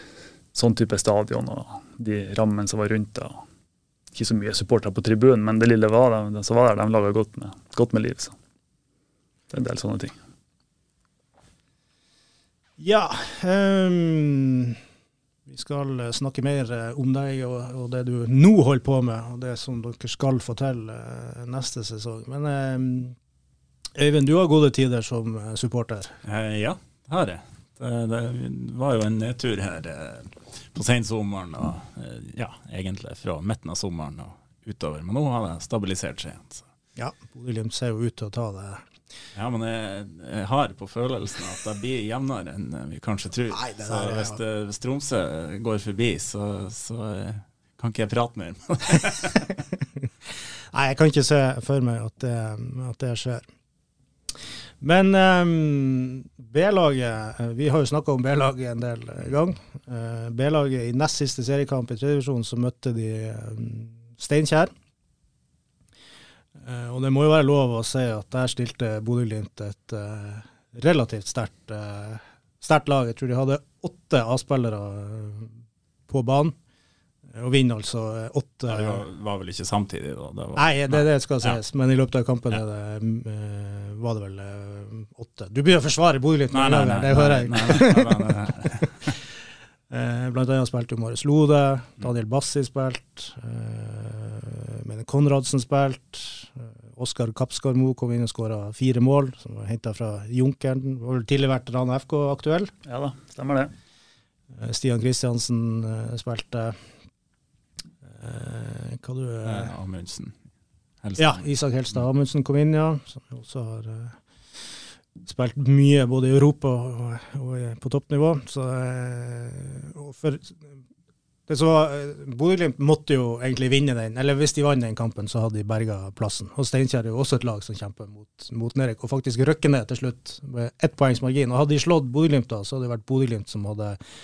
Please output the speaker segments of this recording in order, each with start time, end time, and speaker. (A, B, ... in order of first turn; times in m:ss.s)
0:00.5-0:03.4 A
0:04.1-0:08.4 A
0:09.5-0:10.2 A
0:12.8-0:14.8 B
0:15.5-0:23.2 B
0:24.0-0:26.2 B
0:26.2-0:36.7 C
0:37.0-0:38.8 B
0:39.4-0:49.5 C
0:43.5-0:44.4 B
0:50.7-0:53.5 B
0:54.8-1:04.7 B
1:06.6-1:15.6 B
1:16.1-1:16.6 B
1:17.3-1:19.0 B
1:18.7-1:21.6 C
1:20.6-1:29.1 B
1:26.5-1:28.9 C
1:29.9-1:42.7 B
1:42.9-1:43.7 A
1:44.5-1:46.8 B
1:48.0-1:49.7 B
1:49.4-1:50.4 C
1:51.0-1:52.0 C
1:51.2-1:54.2 B
1:55.2-2:00.8 B
2:01.5-2:14.0 B